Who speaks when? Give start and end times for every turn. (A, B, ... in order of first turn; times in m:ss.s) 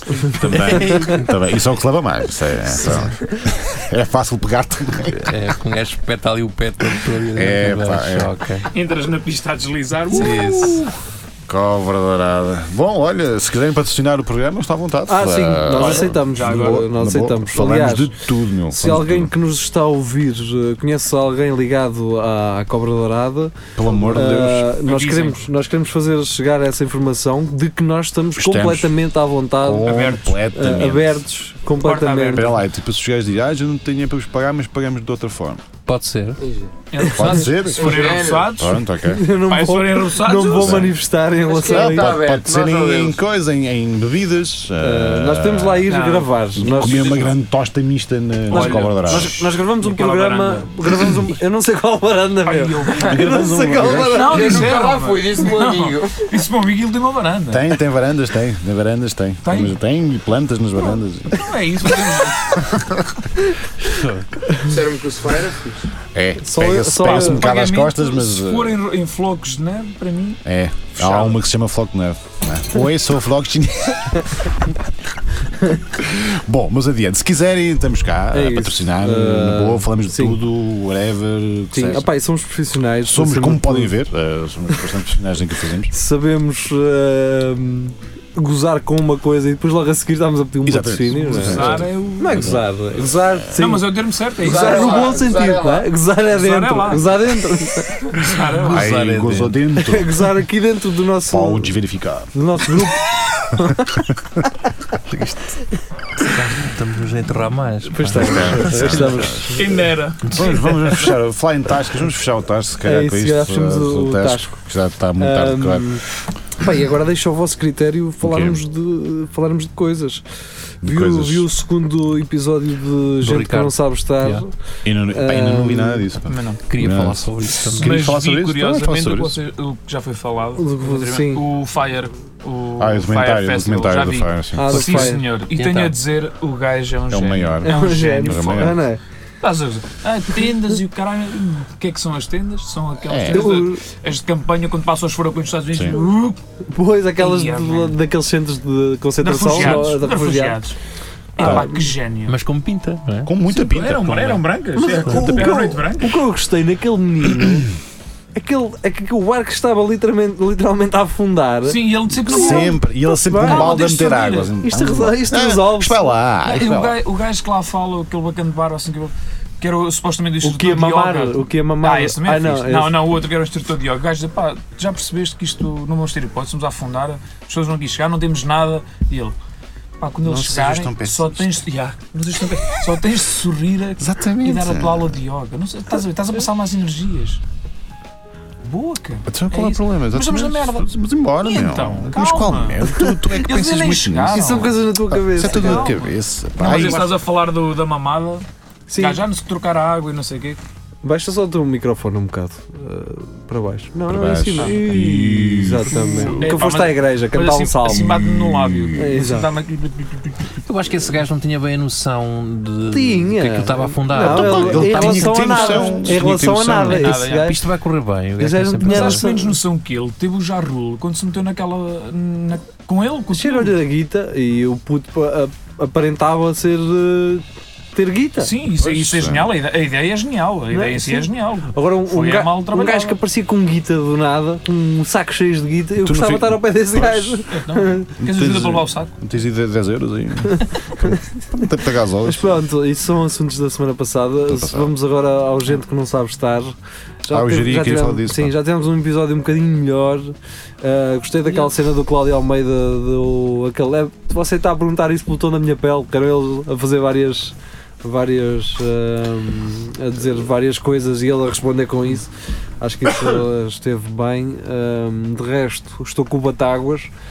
0:00.2-0:05.4 A
0:00.5-0:01.3 B
0:05.2-0:08.7 B
0:07.3-0:08.3 A
0:08.7-0:10.8 C
0:10.1-0:10.8 B
0:10.1-0:10.8 A
0:11.4-0:19.3 A
0:15.1-0:18.1 D
0:15.8-0:16.8 C
0:18.7-0:23.6 D
0:23.8-0:24.7 A
0:24.1-0:30.0 D
0:24.8-0:25.4 C
0:28.3-0:29.0 A
0:29.6-0:31.2 A
0:29.8-0:30.4 C
0:30.5-0:32.5 D
0:31.8-0:32.6 C
0:32.3-0:35.6 A
0:35.8-0:36.4 B
0:36.4-0:36.8 E
0:36.9-0:38.8 C
0:37.0-0:37.4 D
0:37.0-0:39.3 A
0:37.7-0:38.5 E
0:39.0-0:42.2 D
0:39.4-0:40.9 C
0:40.6-0:40.9 A
0:41.3-0:43.2 E
0:41.6-0:46.0 A
0:44.8-0:47.2 D
0:45.9-0:47.4 C
0:46.6-0:49.3 A
0:48.5-0:50.7 C
0:48.5-0:54.7 D
0:52.4-0:53.2 C
0:53.0-0:54.7 A
0:53.9-0:57.8 C
0:54.3-0:56.2 E
0:57.5-1:01.5 A
0:59.4-0:59.7 C
1:01.3-1:02.6 C
1:02.6-1:03.0 A
1:03.8-1:04.5 B
1:04.6-1:05.9 E
1:06.1-1:08.8 A
1:06.4-1:07.4 D
1:07.0-1:10.4 C
1:10.4-1:14.7 A
1:10.9-1:11.4 C
1:16.0-1:22.1 A
1:18.3-1:20.4 D
1:21.7-1:23.9 D
1:23.0-1:25.9 A
1:25.9-1:38.2 D
1:30.6-1:32.6 A
1:31.2-1:32.6 C
1:33.6-1:35.1 C
1:34.4-1:35.9 E
1:36.2-1:37.2 C
1:38.1-1:38.9 C
1:38.6-1:39.6 B
1:38.7-1:40.2 A
1:39.8-1:41.8 D
1:41.3-1:42.3 A
1:42.3-1:43.9 D
1:45.1-1:45.7 D
1:46.2-1:49.2 B
1:47.8-1:49.7 D
1:48.1-1:49.7 A
1:49.5-1:50.4 C
1:50.2-1:50.6 B
1:50.3-1:56.0 A
1:52.8-1:54.6 D
1:55.2-1:56.0 D
1:56.6-2:00.2 D
1:58.2-1:58.6 A
2:00.8-2:01.5 A
2:00.8-2:04.5 D
2:03.2-2:04.4 B
2:04.8-2:09.4 A
2:05.1-2:06.1 D
2:06.3-2:06.6 C
2:06.7-2:08.0 B
2:07.8-2:18.8 C
2:10.6-2:11.4 D
2:12.8-2:15.0 A
2:14.6-2:15.2 D
2:14.8-2:15.9 B
2:17.1-2:18.8 A
2:17.6-2:19.0 D
2:19.4-2:26.4 C
2:23.0-2:23.6 A
2:23.3-2:23.8 D
2:26.7-2:30.6 D
2:27.2-2:28.0 C
2:29.2-2:30.8 C
2:31.4-2:32.4 C
2:31.4-2:31.9 D
2:32.3-2:33.3 B
2:33.2-2:34.4 A
2:33.5-2:36.2 C
2:34.8-2:37.7 D
2:34.9-2:35.2 B
2:38.3-2:42.7 D
2:41.6-2:42.8 C
2:42.2-2:47.0 A
2:43.2-2:43.9 D
2:43.4-2:44.5 C
2:44.6-2:46.1 D
2:46.4-2:59.4 C
2:50.4-2:53.0 D
3:00.0-3:07.4 C
3:00.3-3:01.6 A
3:04.0-3:05.2 A
3:08.6-3:14.8 C
3:09.3-3:17.2 A
3:14.3-3:15.9 D
3:15.4-3:18.4 C
3:18.9-3:19.2 D
3:19.0-3:20.6 C
3:21.0-3:28.1 D
3:24.1-3:26.6 A
3:26.3-3:30.6 C
3:27.9-3:29.0 A
3:29.0-3:29.5 D
3:30.6-3:35.5 B
3:32.9-3:37.6 D
3:34.1-3:37.1 A
3:36.0-3:37.5 C
3:37.2-3:39.2 B
3:38.4-3:39.6 D
3:38.9-3:43.8 C
3:43.3-3:48.5 D
3:48.4-3:53.2 C
3:48.8-3:49.5 A
3:50.7-3:58.1 D
3:56.0-3:57.4 A
3:57.5-3:59.1 C
3:58.2-4:02.6 A
4:02.2-4:27.1 D
4:04.5-4:04.9 A
4:07.3-4:08.5 A